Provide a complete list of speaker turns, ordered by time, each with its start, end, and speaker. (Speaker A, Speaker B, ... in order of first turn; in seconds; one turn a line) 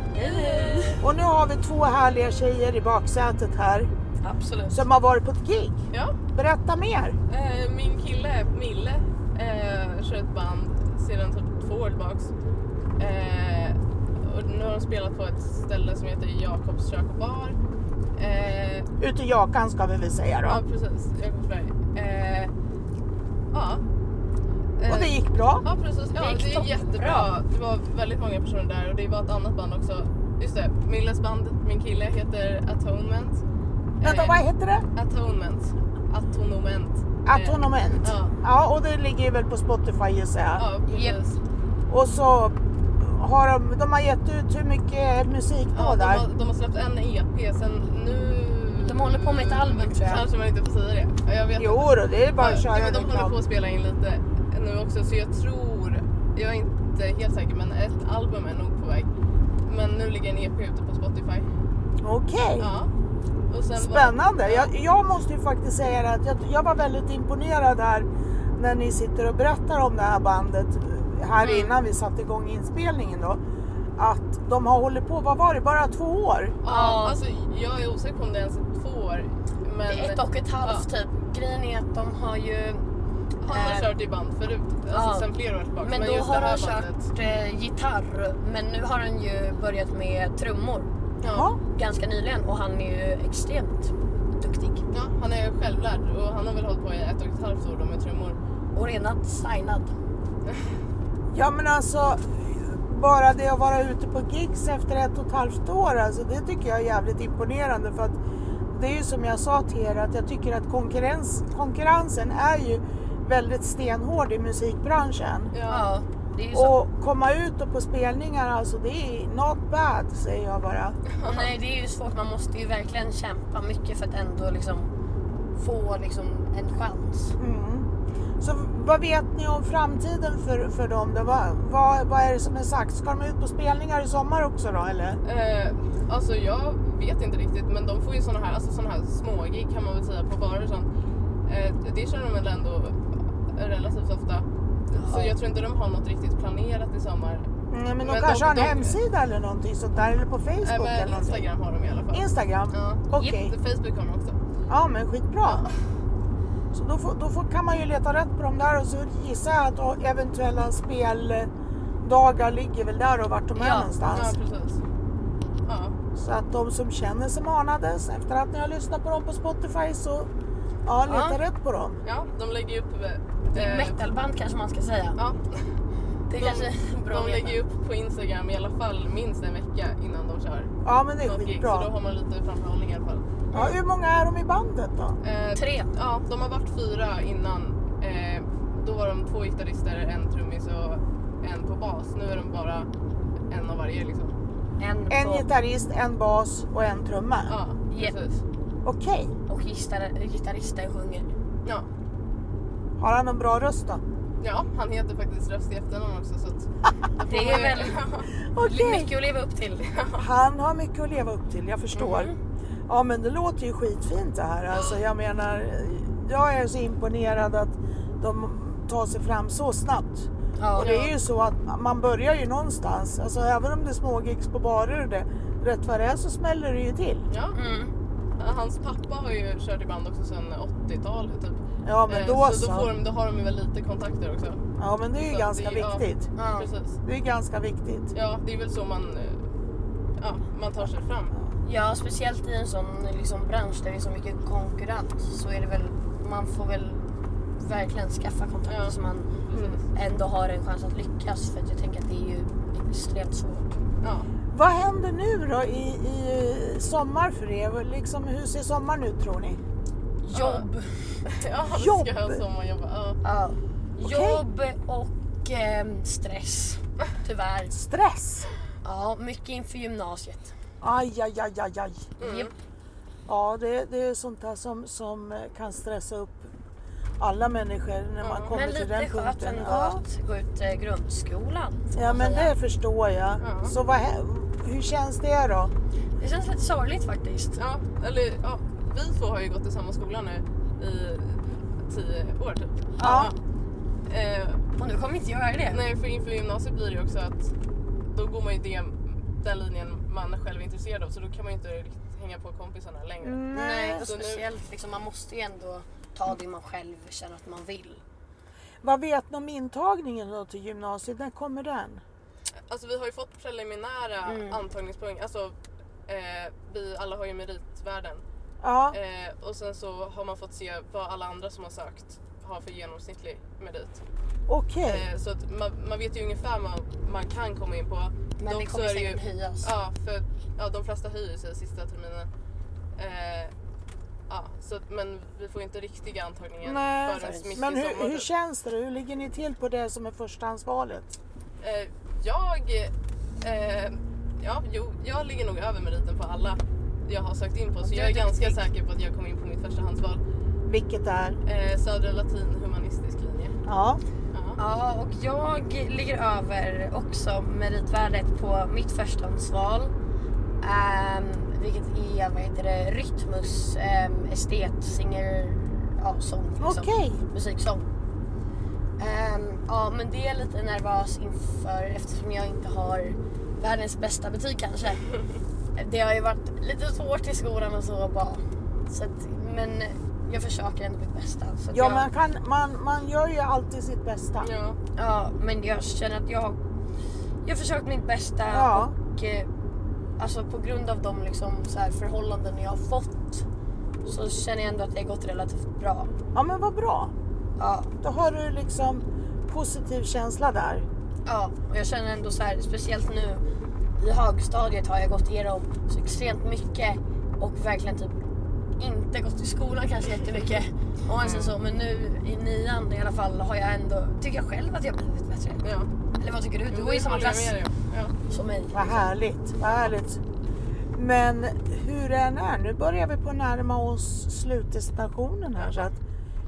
Speaker A: 0.1-1.1
Speaker B: 0.2-0.9
Speaker C: 1.0-3.9
Speaker A: 4.2-4.9
Speaker C: 4.7-5.8
Speaker B: 5.9-6.2
Speaker C: 6.3-7.2
Speaker B: 7.3-12.3
Speaker B: 13.0-17.6
Speaker B: 18.2-18.9
Speaker C: 19.0-20.6
Speaker B: 20.4-22.5
Speaker B: 23.5-23.8
Speaker B: 24.8-33.4
Speaker C: 24.9-25.6
Speaker A: 26.1-27.3
Speaker B: 34.0-34.4
Speaker C: 34.0-34.9
Speaker B: 34.9-38.3
Speaker C: 37.2-40.6
Speaker B: 40.5-41.4
Speaker A: 40.9-41.2
Speaker C: 41.9-46.2
Speaker B: 45.7-59.1
Speaker A: 48.8-50.3
Speaker C: 51.6-53.4
Speaker B: 59.6-61.5
Speaker C: 62.0-62.7
Speaker B: 62.6-62.9
Speaker B: 63.5-64.7
Speaker C: 63.7-73.4
Speaker B: 71.4-71.8
Speaker C: 74.0-76.6
Speaker B: 76.6-80.9
Speaker A: 76.6-77.2
Speaker A: 79.8-82.9
Speaker B: 83.4-87.1
Speaker A: 83.5-83.9
Speaker A: 84.9-90.9
Speaker B: 91.2-91.5
Speaker C: 91.2-91.6
Speaker A: 91.7-94.8
Speaker B: 94.9-98.4
Speaker A: 98.7-99.9
Speaker C: 101.3-108.2
Speaker C: 108.7-115.5
Speaker B: 115.5-115.9
Speaker A: 115.7-116.8
Speaker C: 116.5-121.0
Speaker B: 121.1-121.5
Speaker A: 121.2-124.9
Speaker A: 125.5-127.3
Speaker C: 127.4-135.2
Speaker B: 135.2-140.9
Speaker B: 141.4-147.5
Speaker A: 144.9-145.4
Speaker C: 147.7-151.4
Speaker B: 148.0-149.0
Speaker B: 150.6-154.4
Speaker C: 152.1-153.5
Speaker C: 154.7-155.7
Speaker B: 155.4-155.7
Speaker C: 156.7-161.5
Speaker C: 162.0-164.3
Speaker A: 163.5-163.9
Speaker B: 164.1-164.8
Speaker B: 165.6-165.9
Speaker C: 166.1-170.3
Speaker C: 170.8-172.0
Speaker A: 171.0-171.4
Speaker B: 172.0-174.0
Speaker A: 173.5-175.2
Speaker B: 175.2-175.7
Speaker A: 176.3-177.6
Speaker B: 176.3-183.7
Speaker C: 180.8-181.9
Speaker C: 183.5-185.2
Speaker B: 185.2-192.9
Speaker A: 185.5-185.9
Speaker B: 193.5-194.3
Speaker A: 194.8-195.5
Speaker C: 195.1-197.6
Speaker B: 197.5-198.4
Speaker A: 197.9-198.2
Speaker C: 198.8-199.3
Speaker A: 199.5-201.3
Speaker C: 203.0-204.0
Speaker B: 204.4-208.3
Speaker A: 207.2-208.0
Speaker C: 208.4-209.1
Speaker A: 208.6-209.8
Speaker B: 209.8-210.3
Speaker C: 210.2-212.3
Speaker A: 211.9-212.4
Speaker C: 212.9-227.3
Speaker A: 220.6-220.9
Speaker B: 220.8-221.1
Speaker B: 227.3-227.6
Speaker A: 227.5-227.9
Speaker B: 228.4-234.6
Speaker C: 231.8-232.9
Speaker C: 234.8-236.3
Speaker B: 235.3-237.0
Speaker A: 236.3-236.7
Speaker C: 237.1-238.1
Speaker B: 238.1-239.4
Speaker B: 240.2-241.3
Speaker A: 241.6-253.7
Speaker B: 248.7-248.9
Speaker C: 249.5-249.8
Speaker B: 249.5-249.8
Speaker B: 254.0-254.3
Speaker C: 254.5-259.6
Speaker A: 260.2-261.2
Speaker B: 260.3-260.7
Speaker B: 261.3-263.2
Speaker C: 261.7-262.4
Speaker A: 263.2-267.7
Speaker C: 264.0-264.4
Speaker C: 267.7-268.5
Speaker A: 268.8-270.5
Speaker C: 270.8-272.1
Speaker B: 272.2-272.5
Speaker A: 272.2-272.5
Speaker C: 273.3-276.5
Speaker C: 277.2-280.0
Speaker B: 278.2-278.5
Speaker A: 278.5-282.5
Speaker C: 281.9-285.7
Speaker B: 283.4-283.7
Speaker A: 286.2-287.6
Speaker B: 287.6-293.4
Speaker A: 293.0-293.3
Speaker C: 293.0-293.3
Speaker B: 294.1-294.6
Speaker A: 294.8-295.8
Speaker B: 295.7-297.5
Speaker B: 298.0-303.4
Speaker C: 303.2-304.1
Speaker A: 303.5-308.0
Speaker B: 304.0-304.4
Speaker C: 308.8-312.0
Speaker B: 312.7-315.6
Speaker A: 314.2-314.6
Speaker B: 316.1-318.2
Speaker C: 318.6-319.0
Speaker B: 318.9-324.0
Speaker C: 324.5-325.0
Speaker B: 324.8-332.3
Speaker A: 328.4-329.7
Speaker B: 333.0-333.5
Speaker B: 334.3-338.3
Speaker C: 336.6-341.1
Speaker A: 337.1-337.6
Speaker B: 341.6-350.2
Speaker A: 347.8-348.7
Speaker C: 350.7-351.4
Speaker B: 351.4-353.6
Speaker C: 353.6-354.0
Speaker B: 354.3-354.6
Speaker A: 354.6-359.9
Speaker A: 360.6-367.9
Speaker C: 366.6-367.2
Speaker A: 369.0-375.0
Speaker A: 375.7-382.1
Speaker C: 381.7-384.5
Speaker B: 384.4-384.8
Speaker A: 384.9-386.6
Speaker A: 387.4-389.5
Speaker C: 388.5-388.9
Speaker A: 390.2-393.4
Speaker A: 394.0-396.1
Speaker C: 396.3-397.1
Speaker A: 397.6-397.9
Speaker C: 398.0-400.9
Speaker A: 401.2-403.4
Speaker A: 404.0-408.1
Speaker A: 408.8-415.6
Speaker C: 411.2-411.5
Speaker B: 415.6-415.9
Speaker A: 416.2-417.6
Speaker B: 416.7-418.1
Speaker A: 418.3-419.1
Speaker C: 418.7-420.2
Speaker B: 419.6-419.9
Speaker C: 420.9-426.0
Speaker B: 425.6-425.9